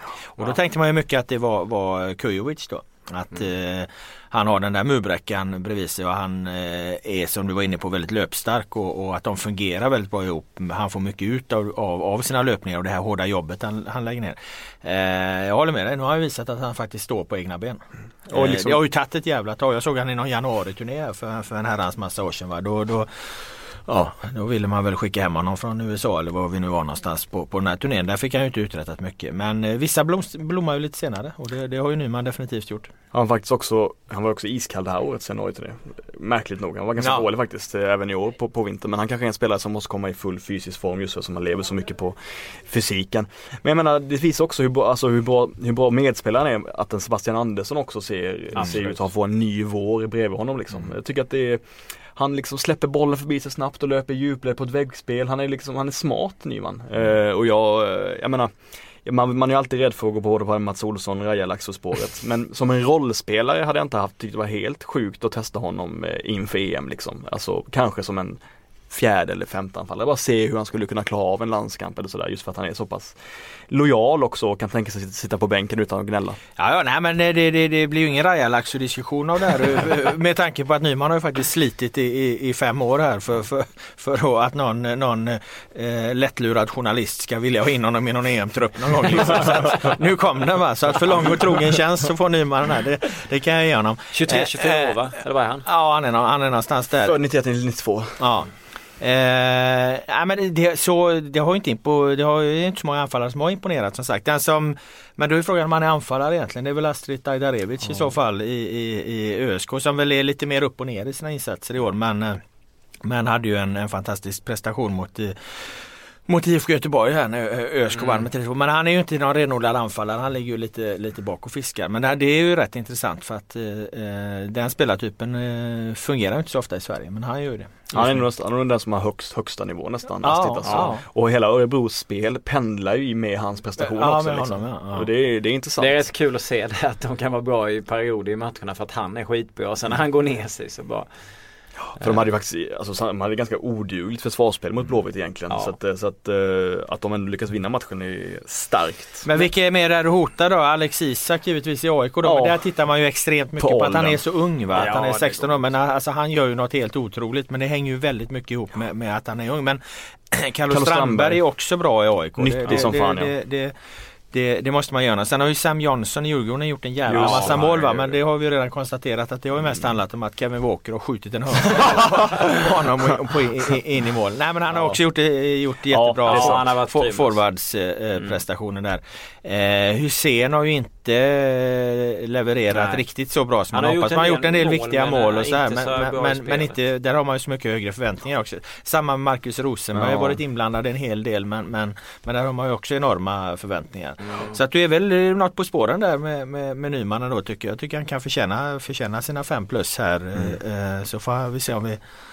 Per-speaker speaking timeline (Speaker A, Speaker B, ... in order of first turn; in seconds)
Speaker A: 0.3-32.9, 37.0-37.3, 76.6-95.0, 95.6-97.2, 98.2-112.4, 113.0-128.2, 130.2-131.0, 133.8-135.1, 149.2-163.7, 164.3-202.0
Speaker B: 18.3-18.8, 33.1-58.5, 59.0-73.2, 73.7-76.4, 97.0-98.3, 127.9-136.0, 141.9-149.2, 152.2-152.6, 153.6-154.2, 160.7-161.4, 162.4-163.3, 167.1-168.2, 174.7-175.0, 175.9-176.7, 189.9-190.3
Speaker C: 48.5-49.0, 94.1-95.6, 118.0-118.2, 130.6-130.9, 135.8-141.1, 145.5-145.7, 154.8-155.5, 167.2-167.5, 176.3-177.4, 182.7-183.0, 183.7-186.7, 194.2-194.6